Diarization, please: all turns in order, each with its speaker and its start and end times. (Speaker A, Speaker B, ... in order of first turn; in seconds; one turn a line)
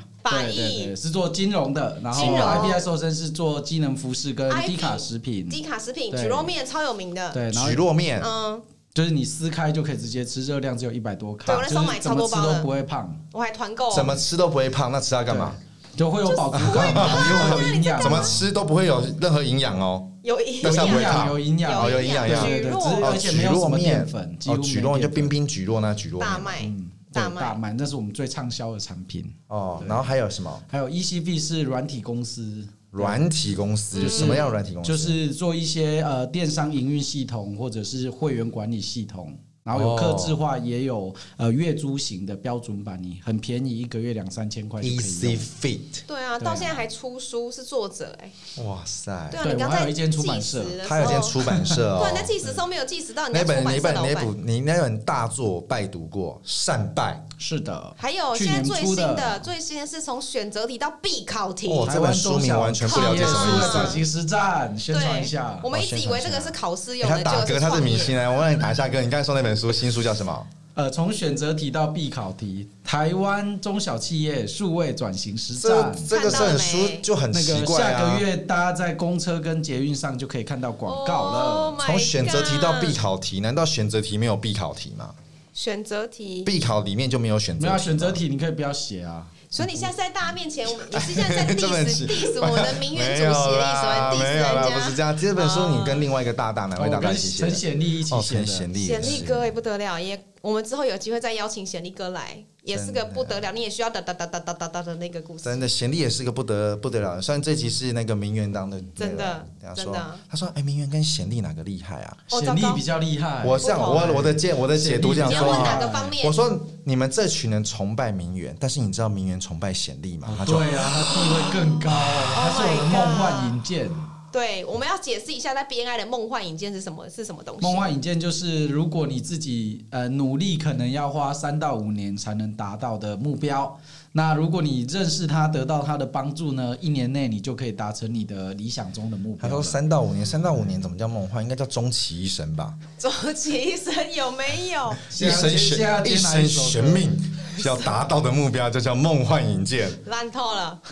Speaker A: 0.1-5.6
Speaker B: 0.2-0.9
Speaker B: 2.1-2.8
Speaker C: 2.2-2.5
Speaker B: 4.5-7.4
Speaker A: 6.1-6.5
Speaker A: 7.3-7.8
Speaker C: 7.5-8.3
Speaker B: 8.2-8.7
Speaker A: 8.9-13.2
Speaker B: 11.4-12.7
Speaker B: 13.3-14.2
Speaker C: 13.9-15.6
Speaker A: 15.3-18.5
Speaker B: 16.2-18.4
Speaker C: 16.5-26.7
Speaker B: 20.2-23.2
Speaker A: 20.6-25.3
Speaker B: 26.2-27.6
Speaker A: 26.6-30.1
Speaker C: 29.5-30.6
Speaker A: 30.7-33.2
Speaker C: 32.9-35.2
Speaker B: 33.9-34.5
Speaker A: 34.0-45.5
Speaker C: 39.7-40.4
Speaker C: 44.8-46.0
Speaker B: 46.1-48.4
Speaker A: 46.4-46.8
Speaker C: 48.6-49.4
Speaker B: 49.3-51.4
Speaker A: 49.4-51.9
Speaker C: 50.8-52.4
Speaker B: 52.0-54.3
Speaker C: 53.3-57.3
Speaker A: 57.4-59.5
Speaker B: 58.0-61.9
Speaker C: 61.7-64.0
Speaker A: 61.8-65.7
Speaker B: 62.9-64.0
Speaker B: 64.9-68.2
Speaker C: 65.7-70.5
Speaker A: 70.8-76.5
Speaker C: 75.6-78.3
Speaker B: 76.1-77.1
Speaker A: 77.3-81.8
Speaker B: 80.9-83.0
Speaker C: 81.8-85.2
Speaker B: 85.5-86.5
Speaker C: 86.5-88.2
Speaker A: 87.6-89.7
Speaker B: 89.5-96.1
Speaker C: 90.8-99.5
Speaker A: 96.8-99.2
Speaker B: 98.8-105.7
Speaker C: 102.7-103.5
Speaker C: 105.4-112.2
Speaker B: 109.0-110.2
Speaker A: 112.3-116.1
Speaker B: 112.3-112.8
Speaker C: 113.4-121.3
Speaker B: 113.6-114.1
Speaker B: 115.2-116.4
Speaker A: 120.2-124.1
Speaker B: 121.0-123.6
Speaker C: 121.9-122.4
Speaker B: 124.3-127.9
Speaker A: 127.6-139.8
Speaker C: 139.4-142.8
Speaker B: 143.0-145.1
Speaker A: 145.1-147.1
Speaker C: 145.1-150.0
Speaker B: 147.6-147.9
Speaker B: 150.0-150.8